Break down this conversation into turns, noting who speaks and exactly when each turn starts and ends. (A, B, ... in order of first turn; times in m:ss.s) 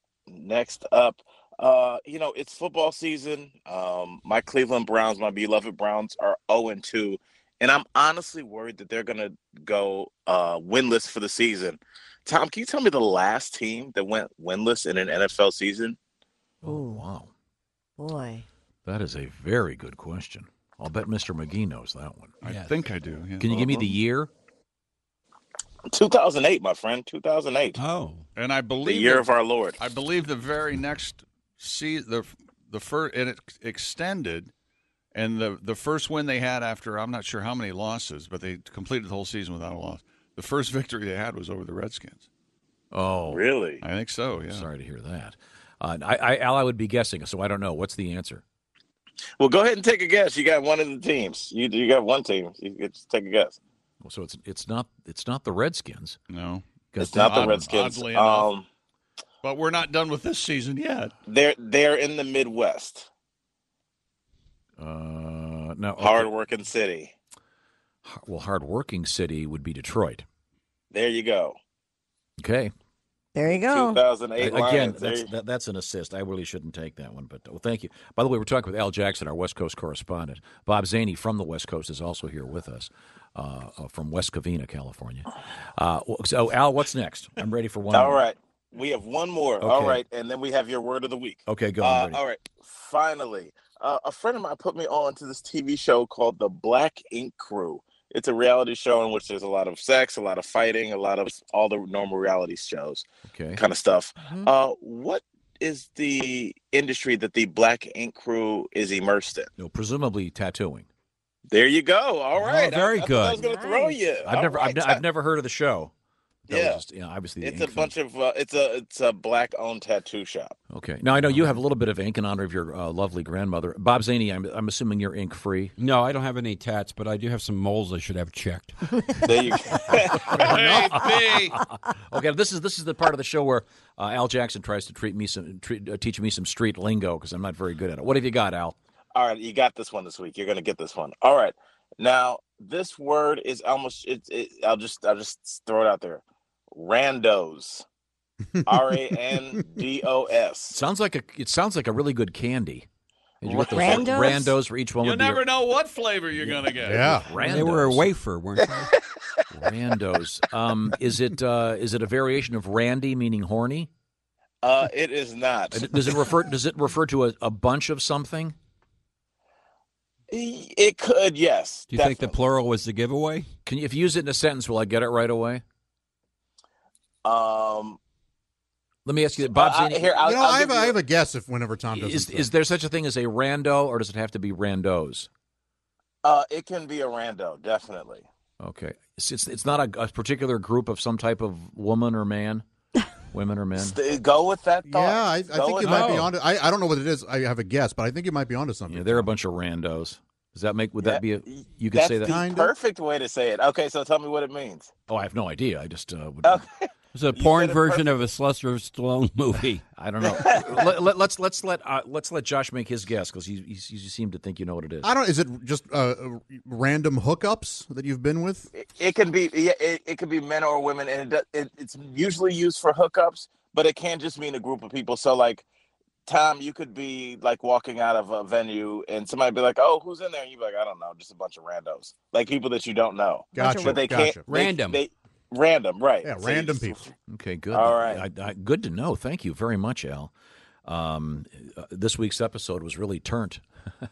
0:00.3-0:16.0 A
0:16.6-0:17.0 B
0:16.6-0:17.3 C
0:18.0-0:18.4 B
0:18.8-0:22.3 C
0:22.4-0:23.6 D
0:22.4-0:22.7 E
0:23.4-0:24.3 C
0:25.9-0:27.8 A
0:27.7-0:28.2 E
0:28.4-0:34.5 D
0:28.8-0:29.8 A
0:35.1-0:42.2 D
0:42.9-0:43.4 C
0:43.3-0:43.8 A
0:43.8-0:44.7 D
0:44.4-0:48.4 C
0:49.4-0:53.6 A
0:54.0-0:56.2 C
0:56.3-0:58.5 D
0:56.9-0:57.7 C
0:57.0-0:58.6 A
0:59.4-1:01.1 D
1:01.2-1:03.1 A
1:04.8-1:06.3 C
1:06.0-1:07.1 A
1:08.0-1:10.2 C
1:10.9-1:11.6 A
1:12.4-1:12.7 C
1:13.3-1:14.0 B
1:13.5-1:15.3 A
1:14.4-1:28.2 C
1:27.9-1:43.0 A
1:29.6-1:30.0 C
1:31.5-1:32.2 C
1:43.3-1:43.6 C
1:43.6-1:49.5 A
1:44.2-1:44.5 B
1:49.6-1:50.9 C
1:51.5-1:55.0 A
1:52.4-1:53.4 E
1:53.3-1:54.0 B
1:54.2-1:55.9 C
1:56.5-1:57.9 C
1:56.5-1:56.8 A
1:57.4-2:00.6 A
2:00.7-2:05.7 C
2:05.8-2:09.4 E
2:09.2-2:10.6 A
2:10.3-2:18.8 C
2:10.4-2:11.6 D
2:19.1-2:27.8 A
2:28.7-2:29.0 F
2:28.7-2:30.8 A
2:30.7-2:32.9 C
2:33.4-2:35.4 C
2:33.4-2:34.5 A
2:33.6-2:34.5 B
2:35.0-2:37.2 D
2:36.4-2:36.7 E
2:36.8-2:37.3 F
2:37.2-2:38.1 C
2:37.3-2:38.9 E
2:38.7-2:39.2 A
2:39.5-2:43.9 C
2:44.6-2:45.9 A
2:45.7-2:48.5 C
2:50.3-2:52.4 A
2:51.9-2:53.5 E
2:53.6-2:55.6 C
2:57.2-2:58.0 A
2:59.0-3:00.1 C
2:59.4-3:01.0 A
3:00.2-3:02.5 F
3:01.9-3:05.3 C
3:06.2-3:08.2 A
3:08.6-3:12.6 C
3:13.2-3:14.0 C
3:13.8-3:16.2 A
3:14.8-3:19.3 F
3:15.8-3:16.3 E
3:18.9-3:22.4 C
3:21.0-3:24.9 A
3:22.2-3:22.7 F
3:25.1-3:26.6 C
3:26.4-3:28.0 A
3:27.1-3:29.8 E
3:30.0-3:35.1 C
3:30.3-3:30.8 A
3:35.0-3:38.7 F
3:38.7-3:45.6 A
3:46.3-3:57.1 A
3:53.5-3:54.0 B
3:53.5-3:54.5 F
3:54.5-3:55.0 E
3:56.2-3:57.0 F
3:57.3-4:00.3 C
3:57.7-3:58.2 A
4:00.8-4:03.6 C